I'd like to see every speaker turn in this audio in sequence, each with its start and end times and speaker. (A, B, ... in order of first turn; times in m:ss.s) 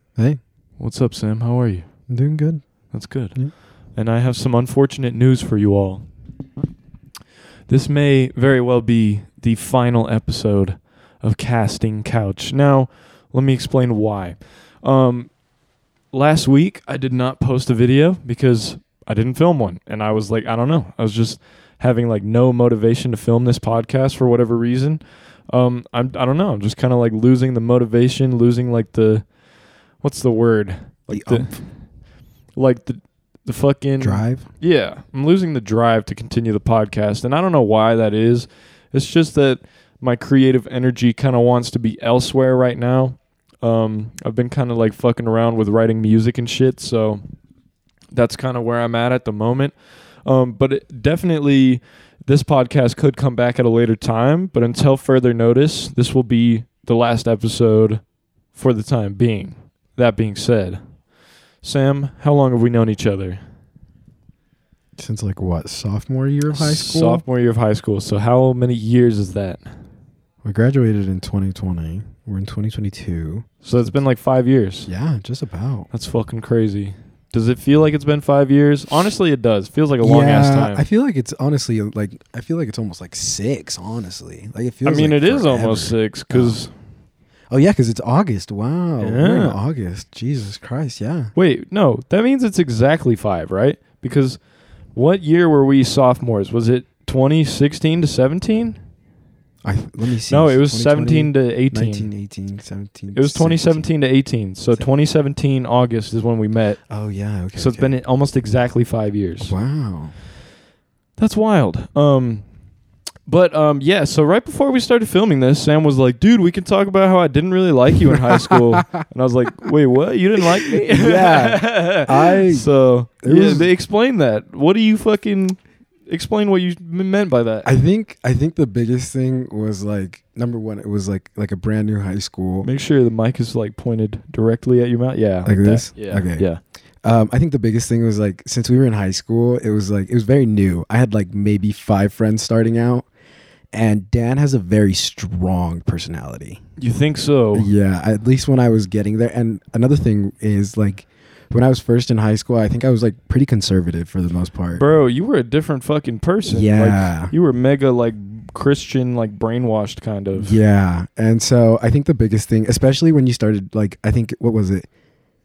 0:00.8-0:01.8 A
0:02.1-0:03.5 B
0:02.9-0:06.0 A
0:07.7-0:15.3 A
0:16.1-0:29.2 A
0:30.0-0:31.7 A
0:31.1-0:31.6 B
0:32.5-0:47.2 A
0:34.0-0:34.5 B
0:48.1-1:00.8 A
1:01.6-1:03.4 A
1:05.0-1:07.2 B
1:06.5-1:09.6 A
1:10.4-1:14.0 B
1:13.6-1:14.9 A
1:14.9-1:15.9 B
1:15.9-1:20.8 A
1:20.0-1:26.6 B
1:24.8-1:26.7 A
1:27.5-1:31.3 B
1:29.0-1:29.6 A
1:31.3-1:34.4 A
1:34.9-1:38.8 A
1:39.6-1:43.9 B
1:40.3-1:42.1 A
1:43.1-1:46.8 A
1:46.9-1:47.9 B
1:47.5-1:49.5 A
1:49.4-1:50.1 B
1:51.2-1:52.4 A
1:53.3-2:07.7 A
1:58.3-1:59.0 B
2:00.8-2:03.7 B
2:07.6-2:12.7 B
2:12.6-2:16.6 A
2:15.4-2:16.5 B
2:17.0-2:23.0 B
2:23.7-2:26.6 B
2:26.8-2:27.7 A
2:27.5-2:34.8 B
2:34.7-2:40.6 A
2:36.5-2:37.3 B
2:40.3-2:44.9 B